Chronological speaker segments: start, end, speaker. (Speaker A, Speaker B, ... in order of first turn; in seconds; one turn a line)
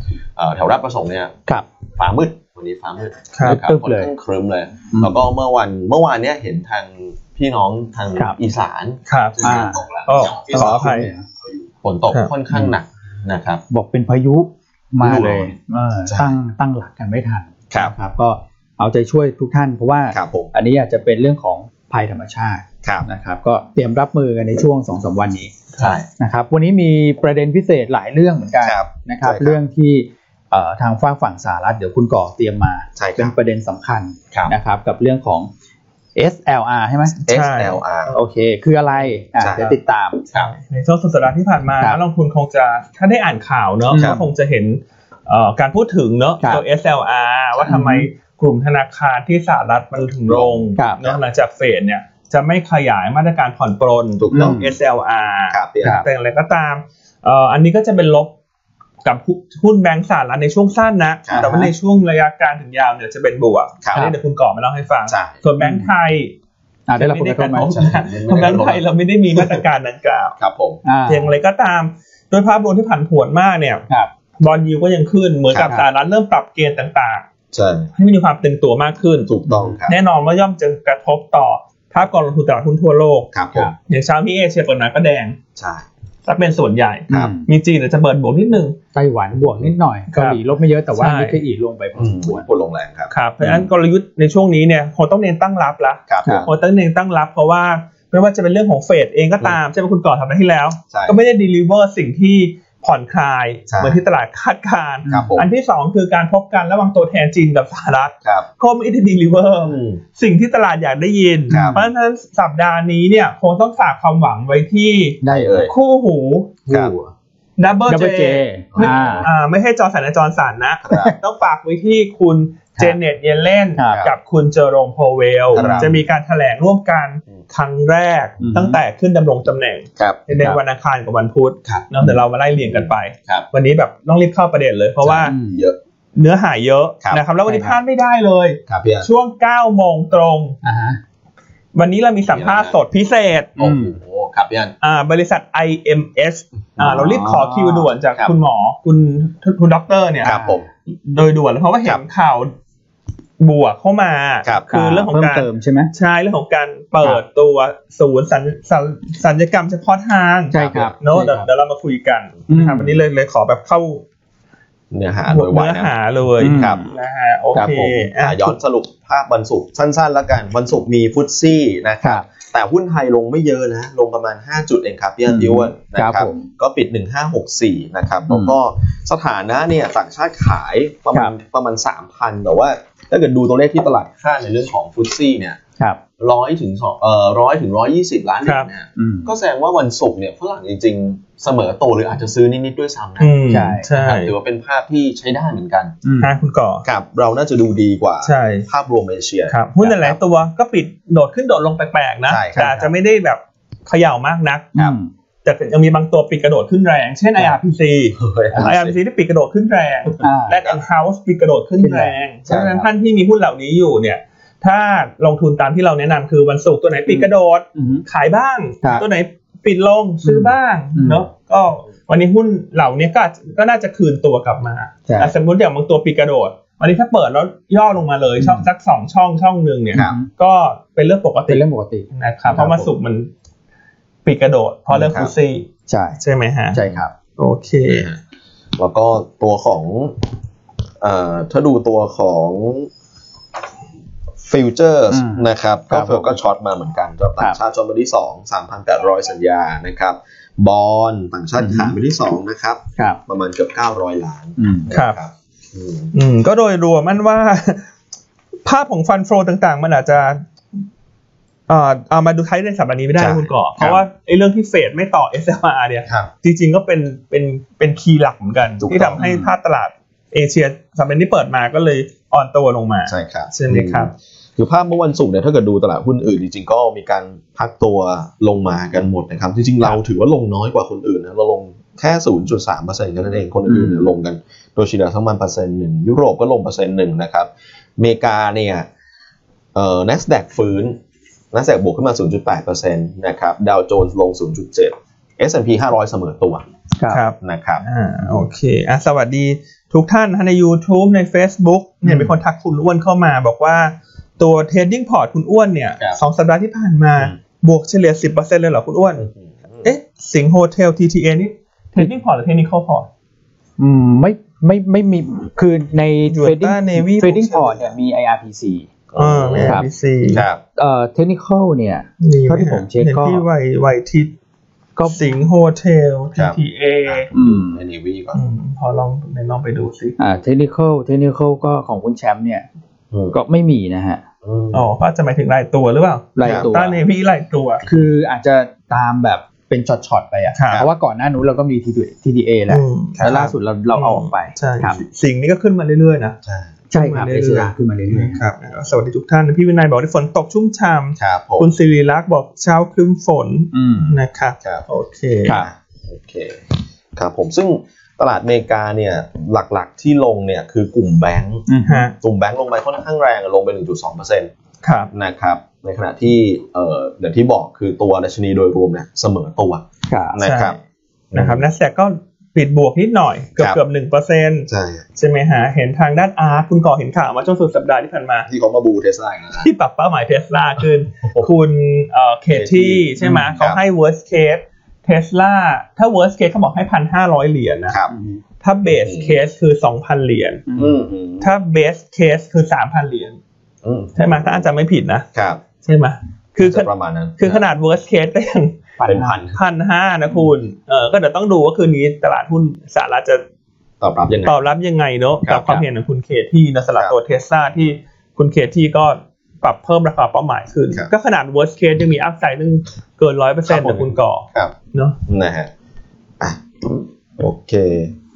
Speaker A: 0.4-1.4
Speaker A: 2.0-13.6
Speaker B: 3.4-3.6
Speaker C: 3.4-4.1
Speaker C: 4.9-5.2
Speaker B: 9.1-11.1
Speaker C: 9.4-9.8
Speaker C: 10.5-11.3
Speaker C: 13.7-35.5
Speaker A: 15.0-15.5
Speaker A: 16.1-16.4
Speaker A: 20.1-20.5
Speaker A: 25.8-26.1
Speaker A: 28.6-29.6
Speaker A: 33.0-33.3
Speaker C: 36.2-37.2
Speaker B: 37.2-37.8
Speaker A: 37.3-38.1
Speaker C: 38.1-40.3
Speaker A: 39.4-39.8
Speaker B: 40.4-58.3
Speaker C: 43.9-44.2
Speaker A: 44.0-44.2
Speaker C: 47.7-48.1
Speaker A: 50.2-51.2
Speaker A: 54.2-54.6
Speaker C: 54.3-54.8
Speaker A: 55.5-56.0
Speaker B: 59.0-66.3
Speaker C: 61.4-61.7
Speaker A: 63.8-64.1
Speaker A: 65.1-65.4
Speaker C: 65.6-65.9
Speaker C: 66.9-67.7
Speaker B: 67.0-70.3
Speaker A: 67.7-68.8
Speaker A: 69.3-69.6
Speaker A: 70.4-70.8
Speaker C: 70.8-71.3
Speaker B: 71.1-73.8
Speaker B: 74.4-77.3
Speaker C: 75.5-75.8
Speaker A: 77.5-77.9
Speaker B: 78.0-79.3
Speaker A: 79.3-80.0
Speaker C: 79.5-79.8
Speaker B: 79.9-83.3
Speaker A: 83.3-83.7
Speaker B: 83.9-85.4
Speaker A: 85.6-85.9
Speaker B: 86.3-88.8
Speaker C: 87.1-87.5
Speaker C: 88.9-92.5
Speaker B: 90.1-90.4
Speaker B: 91.0-91.4
Speaker A: 92.0-93.1
Speaker B: 93.1-116.6
Speaker A: 96.1-96.5
Speaker A: 100.9-101.2
Speaker A: 103.7-104.0
Speaker C: 105.1-105.4
Speaker A: 105.1-105.5
Speaker A: 109.6-110.0
Speaker A: 111.5-111.8
Speaker C: 111.5-111.9
Speaker C: 115.2-115.7
Speaker A: 115.3-115.7
Speaker C: 116.7-117.1
Speaker A: 116.7-116.9
Speaker B: 117.6-135.3
Speaker C: 117.9-119.3
Speaker A: 118.7-119.3
Speaker A: 120.8-121.2
Speaker C: 123.8-124.1
Speaker A: 123.9-124.1
Speaker A: 125.5-126.0
Speaker C: 125.5-125.9
Speaker C: 128.4-128.8
Speaker A: 132.6-133.5
Speaker A: 135.0-135.8
Speaker C: 135.2-135.6
Speaker B: 136.2-140.6
Speaker C: 137.5-137.8
Speaker A: 138.7-139.1
Speaker C: 140.6-141.0
Speaker B: 141.8-143.5
Speaker A: 142.3-142.8
Speaker A: 143.6-144.8
Speaker C: 143.6-144.0
Speaker B: 144.8-152.5
Speaker C: 146.8-147.9
Speaker C: 150.2-150.7
Speaker A: 150.2-150.6
Speaker B: 153.4-164.0
Speaker C: 154.7-155.9
Speaker C: 160.5-161.5
Speaker A: 160.6-161.0
Speaker C: 162.5-163.0
Speaker A: 164.9-166.8
Speaker B: 165.3-168.6
Speaker C: 166.4-166.9
Speaker C: 167.6-168.1
Speaker A: 168.2-185.6
Speaker C: 175.3-176.5
Speaker C: 178.3-178.5
Speaker A: 186.2-195.9
Speaker B: 188.4-188.7
Speaker C: 189.0-189.3
Speaker B: 193.2-194.3
Speaker C: 193.5-193.9
Speaker C: 196.0-196.3
Speaker B: 196.2-196.8
Speaker A: 196.8-200.2
Speaker B: 198.2-198.7
Speaker B: 199.5-204.7
Speaker A: 202.3-202.9
Speaker C: 204.8-205.1
Speaker B: 205.4-233.3
Speaker A: 208.2-209.0
Speaker C: 210.2-210.6
Speaker C: 211.8-212.8
Speaker C: 217.1-218.0
Speaker C: 220.2-221.2
Speaker C: 225.1-225.3
Speaker C: 228.4-228.7
Speaker C: 229.9-230.3
Speaker C: 231.5-232.9
Speaker B: 234.2-235.7
Speaker A: 234.9-235.3
Speaker C: 235.9-236.2
Speaker B: 236.2-236.8
Speaker C: 236.7-237.1
Speaker B: 237.4-238.1
Speaker A: 237.9-238.2
Speaker A: 238.8-240.2
Speaker A: 241.0-242.9
Speaker A: 244.4-256.1
Speaker C: 245.1-246.3
Speaker C: 251.6-251.9
Speaker C: 254.6-254.9
Speaker B: 254.9-255.2
Speaker B: 256.1-257.9
Speaker B: 258.6-260.4
Speaker B: 261.7-274.1
Speaker A: 263.2-264.0
Speaker A: 268.8-269.2
Speaker C: 269.2-269.5
Speaker A: 273.1-288.9
Speaker C: 283.7-284.1
Speaker A: 289.7-291.0
Speaker A: 291.5-296.7
Speaker B: 297.1-309.3
Speaker A: 297.4-297.8
Speaker C: 302.0-302.3
Speaker A: 309.2-309.9
Speaker B: 309.8-313.1
Speaker C: 313.8-318.9
Speaker B: 316.3-317.6
Speaker A: 319.1-320.6
Speaker B: 319.1-320.4
Speaker C: 319.6-319.9
Speaker C: 320.8-323.4
Speaker B: 322.2-324.3
Speaker B: 325.1-327.3
Speaker A: 326.4-328.4
Speaker C: 327.3-327.8
Speaker B: 328.3-330.2
Speaker C: 330.2-332.6
Speaker A: 333.1-333.4
Speaker C: 333.3-334.2
Speaker A: 334.4-334.9
Speaker B: 334.7-337.8
Speaker C: 336.4-337.0
Speaker A: 336.4-336.7
Speaker C: 337.8-345.0
Speaker B: 340.6-340.8
Speaker B: 342.7-346.4
Speaker A: 343.2-343.4
Speaker A: 346.4-346.7
Speaker C: 346.9-348.4
Speaker B: 346.9-355.6
Speaker A: 351.2-351.7
Speaker C: 353.7-354.2
Speaker A: 355.5-361.7
Speaker C: 361.7-362.1
Speaker B: 361.9-362.2
Speaker A: 362.2-364.5
Speaker B: 364.8-365.1
Speaker A: 365.1-370.8
Speaker C: 370.1-370.4
Speaker B: 370.4-370.8
Speaker A: 371.3-371.6
Speaker B: 371.3-378.5
Speaker A: 374.7-375.1
Speaker A: 378.5-379.7
Speaker B: 379.6-388.0
Speaker A: 381.2-381.5
Speaker A: 382.5-383.8
Speaker C: 383.2-383.5
Speaker C: 388.1-388.4
Speaker B: 388.6-390.6
Speaker A: 388.9-389.4
Speaker C: 390.7-391.0
Speaker A: 390.7-391.5
Speaker B: 391.4-393.4
Speaker A: 393.8-394.7
Speaker B: 394.2-395.3
Speaker A: 395.3-395.6
Speaker B: 395.8-398.8
Speaker A: 396.6-397.6
Speaker C: 399.0-399.4
Speaker A: 399.1-399.6
Speaker B: 399.5-403.4
Speaker A: 404.0-404.6
Speaker B: 404.4-415.2
Speaker A: 405.4-405.9
Speaker A: 413.7-414.7
Speaker A: 415.3-415.7
Speaker A: 416.4-418.2